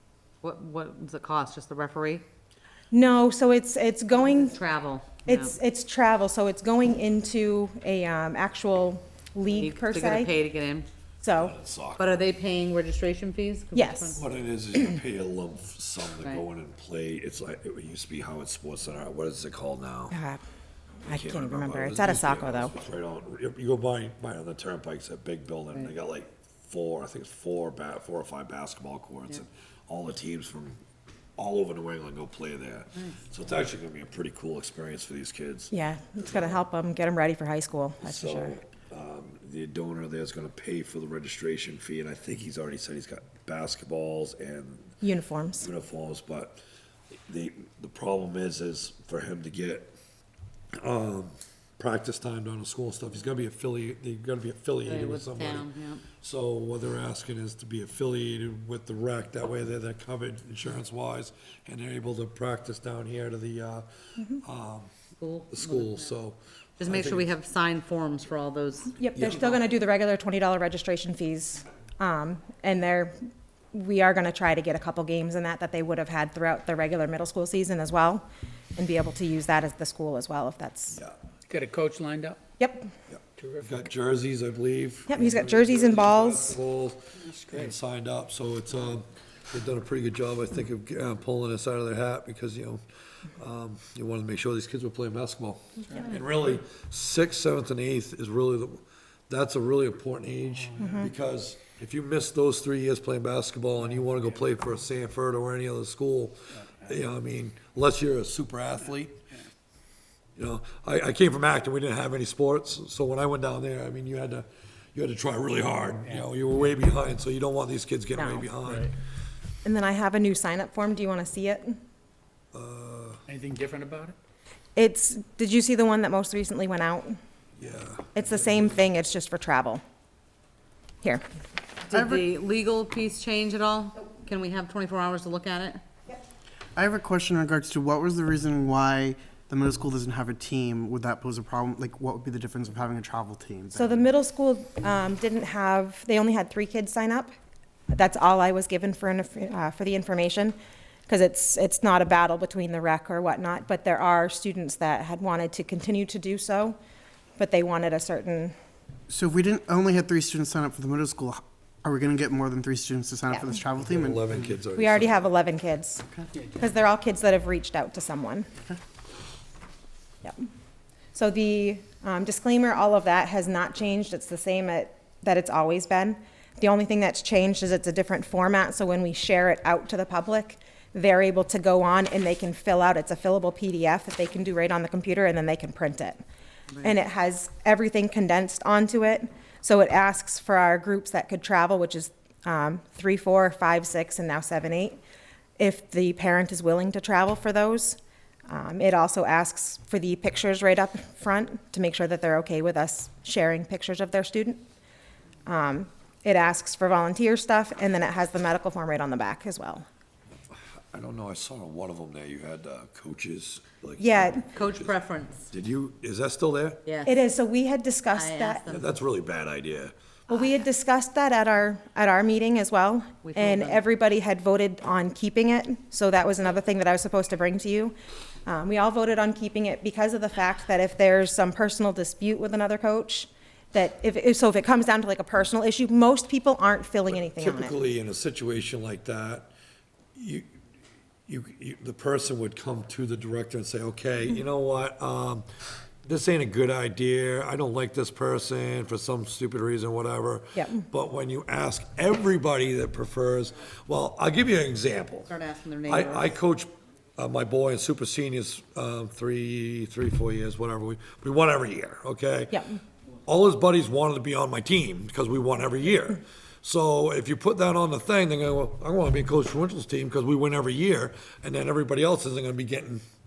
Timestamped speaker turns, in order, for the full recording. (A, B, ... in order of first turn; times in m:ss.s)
0:00.4-0:02.2 A
0:02.9-0:04.6 B
0:04.1-0:05.6 A
0:05.2-0:10.3 B
0:09.5-0:10.9 A
0:11.2-0:11.6 B
0:11.4-0:12.3 C
0:12.0-0:14.2 A
0:13.7-0:14.2 B
0:14.2-0:20.2 C
0:20.1-0:20.4 B
0:21.0-0:22.7 B
0:21.1-0:30.8 C
0:31.4-0:36.6 C
0:35.7-0:38.6 B
0:38.0-0:45.0 C
0:45.0-0:45.7 B
0:45.6-0:46.6 C
0:47.3-0:50.0 C
0:50.8-0:55.7 C
0:54.8-0:56.1 A
0:56.2-1:04.9 C
1:05.2-1:06.1 A
1:05.5-1:07.3 C
1:06.8-1:09.0 A
1:09.0-1:21.0 B
1:09.2-1:09.6 C
1:21.5-1:22.4 D
1:22.6-1:22.9 B
1:23.1-1:32.8 C
1:23.4-1:23.9 D
1:25.1-1:26.6 B
1:27.4-1:27.8 D
1:33.4-1:49.2 C
1:40.7-1:41.0 D
1:40.8-1:41.0 B
1:50.4-1:58.9 C
1:58.1-1:58.5 B
1:58.6-1:58.9 D
1:59.6-2:01.8 B
2:02.5-2:03.2 C
2:03.3-2:04.2 D
2:04.8-2:07.2 B
2:07.6-2:08.2 C
2:08.1-2:09.8 B
2:11.9-2:15.8 A
2:11.9-2:12.2 E
2:16.8-2:24.0 E
2:23.8-2:27.3 B
2:27.9-2:30.6 B
2:31.1-2:36.8 B
2:37.4-2:38.6 B
2:39.1-2:44.5 E
2:43.3-2:43.6 B
2:43.8-2:45.3 C
2:44.8-2:48.5 B
2:51.2-3:06.2 B
3:06.8-3:15.0 B
3:15.6-3:24.6 B
3:25.5-3:29.9 B
3:30.5-3:34.9 C
3:34.0-3:34.5 B
3:34.5-3:35.5 A
3:35.5-3:36.8 C
3:36.8-3:37.2 A
3:37.0-3:38.7 B
3:38.1-3:38.9 A
3:38.7-3:39.9 C
3:40.3-3:48.0 B
3:43.2-3:43.8 A
3:48.5-3:57.8 B
3:57.1-3:59.5 C
4:00.2-4:00.5 C
4:01.3-4:05.5 C
4:06.0-4:15.3 C
4:10.6-4:10.8 B
4:15.3-4:16.4 A
4:15.9-4:22.6 C
4:22.5-4:22.8 B
4:23.3-4:33.0 C